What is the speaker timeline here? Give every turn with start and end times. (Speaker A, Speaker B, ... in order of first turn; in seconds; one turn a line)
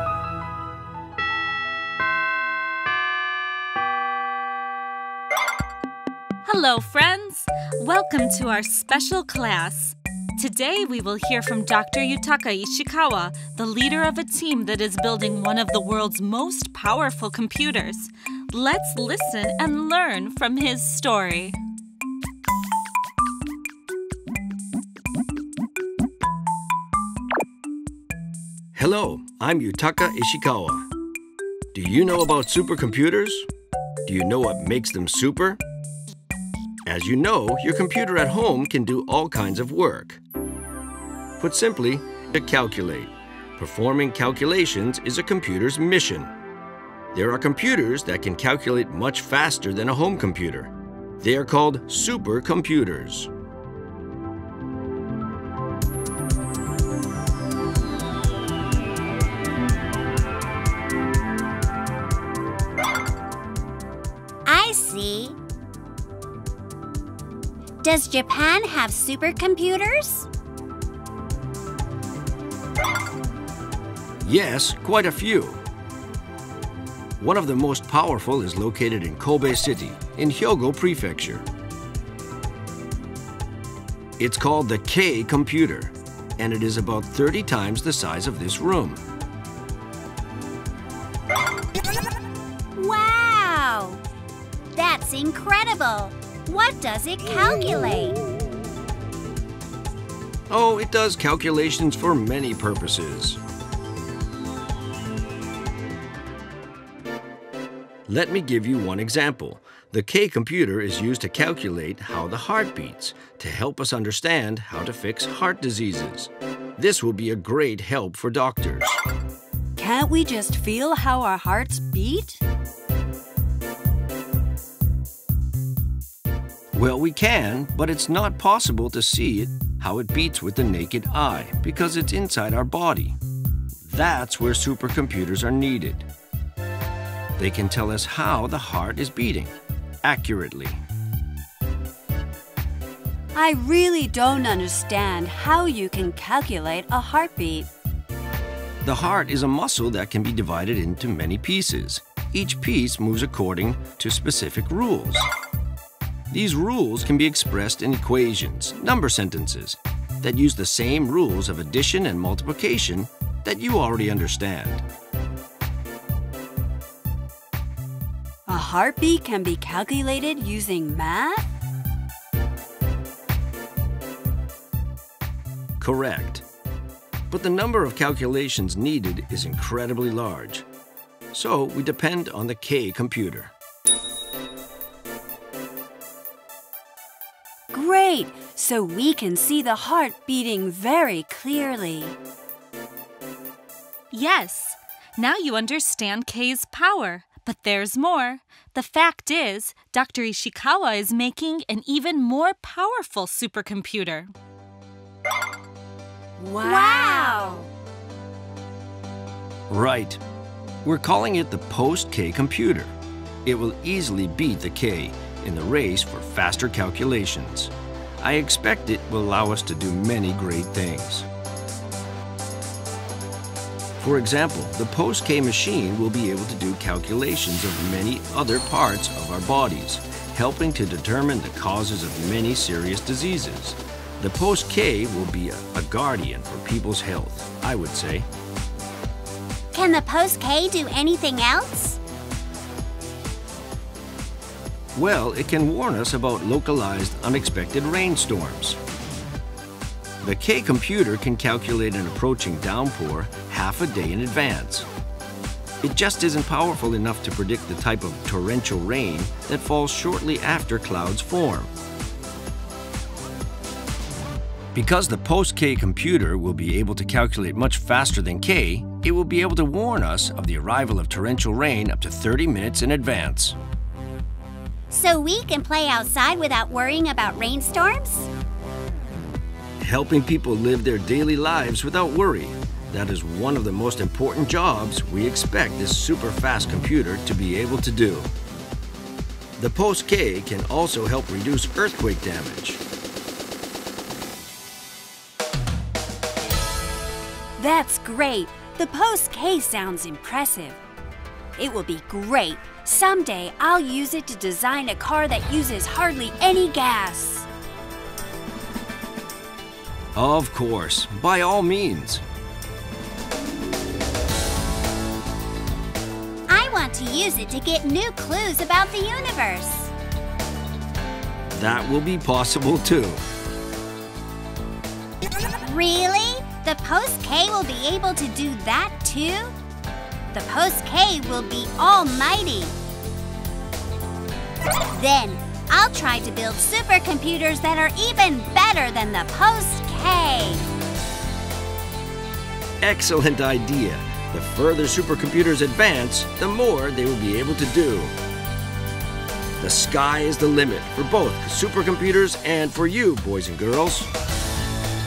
Speaker A: 6.5-21.6
Speaker B: 28.8-30.9
Speaker B: 31.7-33.5
Speaker B: 34.0-35.6
Speaker B: 36.9-40.2
Speaker B: 41.4-46.3
Speaker B: 47.1-53.3
Speaker C: 64.5-65.4
Speaker C: 67.8-70.3
Speaker B: 74.2-75.6
Speaker B: 77.2-81.5
Speaker B: 84.2-89.0
Speaker C: 92.8-94.0
Speaker C: 94.7-98.2
Speaker B: 100.5-103.4
Speaker B: 108.1-119.0
Speaker D: 119.8-122.4
Speaker B: 126.7-133.2
Speaker B: 133.9-136.1
Speaker B: 137.4-140.8
Speaker D: 143.3-147.7
Speaker B: 148.8-155.3
Speaker B: 156.3-164.8
Speaker D: 168.5-171.4
Speaker B: 175.8-176.4
Speaker B: 177.3-180.7
Speaker B: 181.3-183.5
Speaker D: 187.7-192.2
Speaker A: 194.1-204.3
Speaker D: 206.4-207.7
Speaker C: 206.6-207.7
Speaker B: 209.7-210.2
Speaker B: 210.8-221.3
Speaker B: 224.0-238.3
Speaker C: 239.7-242.0
Speaker B: 244.9-248.8
Speaker B: 250.2-254.9
Speaker B: 255.8-261.7
Speaker B: 264.8-273.6
Speaker C: 274.9-278.3
Speaker B: 279.8-288.3
Speaker B: 289.6-292.8
Speaker D: 297.6-300.8
Speaker D: 301.6-307.5
Speaker B: 310.2-312.2
Speaker C: 316.5-319.9
Speaker B: 321.5-323.2
Speaker C: 325.6-329.6
Speaker C: 330.3-332.8
Speaker C: 334.9-340.6
Speaker B: 342.8-348.2
Speaker B: 349.6-354.1